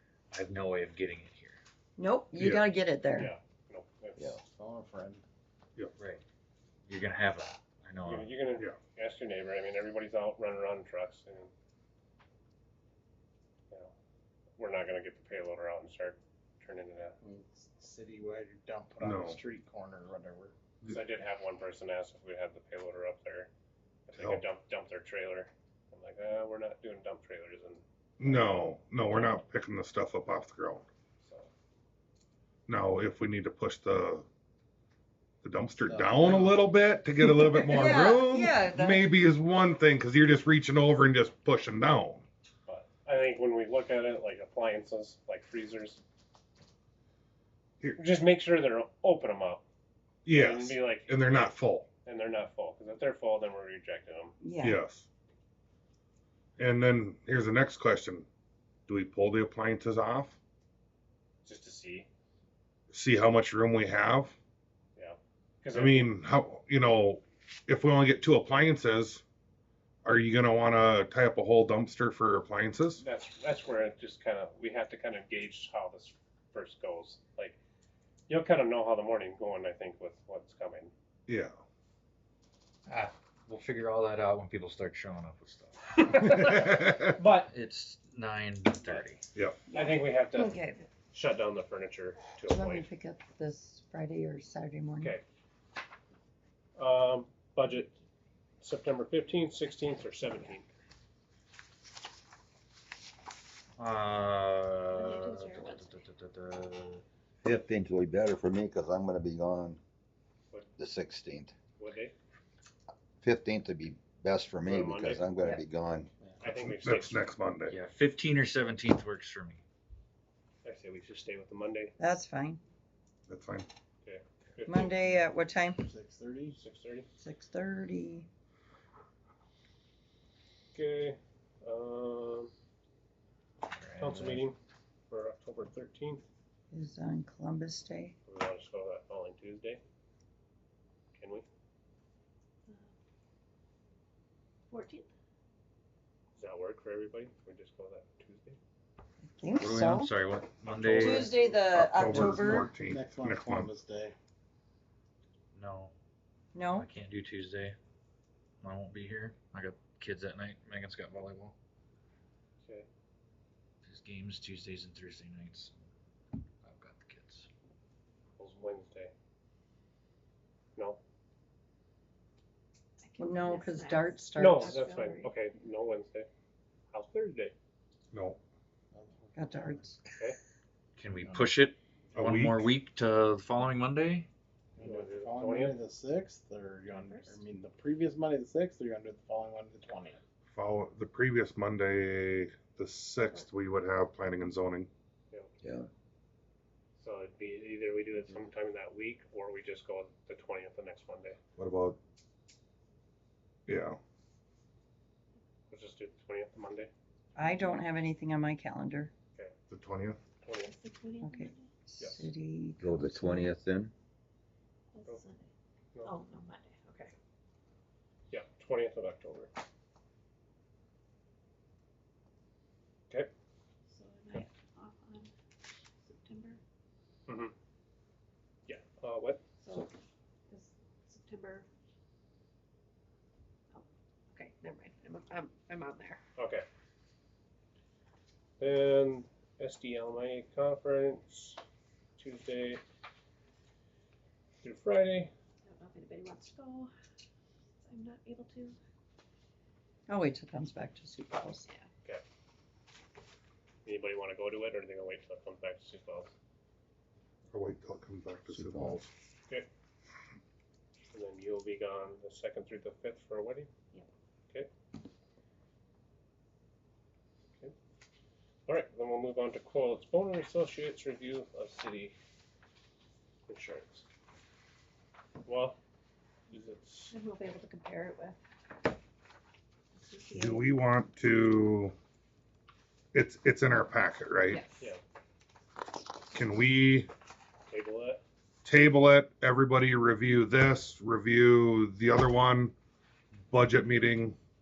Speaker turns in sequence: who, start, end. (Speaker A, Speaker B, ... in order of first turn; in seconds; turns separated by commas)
Speaker A: 0.3-1.6, Speaker B: 2.0-3.3, Speaker C: 2.4-2.7, Speaker D: 3.1-4.3, Speaker E: 4.4-5.2, Speaker A: 6.0-6.2, Speaker A: 6.9-8.3, Speaker D: 8.0-11.5, Speaker D: 14.6-17.1, Speaker E: 17.2-20.5, Speaker C: 19.0-19.4, Speaker D: 20.9-23.5, Speaker D: 24.1-29.4, Speaker C: 24.1-24.4, Speaker C: 28.2-30.9, Speaker D: 31.2-31.5, Speaker C: 32.7-34.3, Speaker C: 35.4-42.3, Speaker E: 35.7-36.8, Speaker B: 37.4-39.1, Speaker D: 42.6-46.0, Speaker D: 48.0-49.6, Speaker C: 50.2-51.9, Speaker D: 50.3-51.5, Speaker D: 52.0-54.4, Speaker B: 54.4-54.8, Speaker C: 54.6-55.1, Speaker C: 56.6-58.3, Speaker C: 58.9-60.4, Speaker D: 61.4-62.1, Speaker C: 62.9-64.4, Speaker D: 65.0-66.1, Speaker C: 65.7-69.2, Speaker C: 70.0-73.0, Speaker D: 73.0-77.6, Speaker D: 78.3-80.9, Speaker C: 81.3-81.5, Speaker A: 82.9-86.2, Speaker D: 86.0-87.5, Speaker C: 86.4-87.1, Speaker A: 87.3-89.2, Speaker C: 89.3-89.6, Speaker B: 89.7-90.9, Speaker D: 89.7-90.6, Speaker D: 91.1-92.9, Speaker B: 92.5-95.2, Speaker D: 96.8-97.9, Speaker D: 98.6-100.7, Speaker A: 103.8-107.0, Speaker F: 104.9-106.0, Speaker G: 107.4-109.8, Speaker G: 110.8-111.5, Speaker D: 111.8-112.1, Speaker G: 113.2-116.1, Speaker D: 114.6-115.2, Speaker D: 116.4-117.2, Speaker C: 116.4-117.7, Speaker A: 117.7-119.6, Speaker D: 120.6-121.9, Speaker B: 122.0-122.6, Speaker C: 123.3-123.7, Speaker D: 124.0-125.0, Speaker B: 124.6-125.8, Speaker E: 125.8-126.6, Speaker D: 126.6-127.1, Speaker B: 127.2-128.3, Speaker D: 130.7-132.5, Speaker A: 133.6-134.4, Speaker D: 134.0-134.6, Speaker D: 135.1-136.2, Speaker B: 136.7-138.1, Speaker D: 138.3-139.8, Speaker D: 141.2-141.4, Speaker F: 144.7-145.1, Speaker D: 146.3-148.6, Speaker B: 149.2-150.1, Speaker A: 149.6-151.4, Speaker B: 150.8-152.7, Speaker C: 150.8-153.7, Speaker E: 152.0-154.1, Speaker A: 155.5-155.9, Speaker B: 156.5-156.9, Speaker A: 156.8-157.8, Speaker A: 158.6-161.5, Speaker A: 163.8-165.8, Speaker A: 166.6-167.5, Speaker D: 168.4-169.1, Speaker F: 173.0-175.3, Speaker B: 173.2-174.8, Speaker D: 174.3-176.3, Speaker D: 176.9-177.5, Speaker C: 178.1-178.4, Speaker E: 178.9-179.8, Speaker B: 179.3-180.0, Speaker D: 180.1-180.4, Speaker A: 180.9-184.3, Speaker E: 181.2-181.5, Speaker C: 182.1-182.7, Speaker E: 184.8-190.2, Speaker D: 184.8-185.8, Speaker F: 186.9-187.4, Speaker C: 190.5-194.9, Speaker G: 195.6-195.9, Speaker D: 197.0-201.4, Speaker C: 201.6-202.0, Speaker C: 203.7-204.0, Speaker D: 205.7-206.9, Speaker B: 207.3-209.1, Speaker C: 209.7-210.2, Speaker D: 210.4-210.7, Speaker F: 210.4-211.7, Speaker B: 211.2-213.5, Speaker D: 212.0-212.2, Speaker G: 212.8-213.9, Speaker F: 214.9-215.5, Speaker F: 216.0-217.1, Speaker D: 218.3-219.5, Speaker F: 223.9-225.3, Speaker F: 226.0-226.6, Speaker D: 227.3-227.5, Speaker D: 228.7-229.4, Speaker F: 229.6-229.9, Speaker F: 230.5-231.7, Speaker F: 233.7-236.2, Speaker D: 236.4-236.6, Speaker D: 238.6-241.6, Speaker D: 242.2-242.8, Speaker D: 244.6-245.3, Speaker F: 245.7-246.9, Speaker F: 247.8-248.8, Speaker B: 250.1-251.7, Speaker D: 253.8-256.3, Speaker C: 257.5-259.1, Speaker G: 258.5-259.0, Speaker D: 261.1-263.7, Speaker D: 268.7-272.1, Speaker D: 273.5-274.0, Speaker D: 275.4-275.8, Speaker D: 276.5-277.1, Speaker F: 277.1-278.4, Speaker F: 279.9-280.7, Speaker C: 280.3-281.9, Speaker C: 283.1-284.6, Speaker F: 284.5-284.9, Speaker C: 286.3-287.1, Speaker D: 287.7-288.2, Speaker C: 288.6-292.7, Speaker C: 293.4-294.4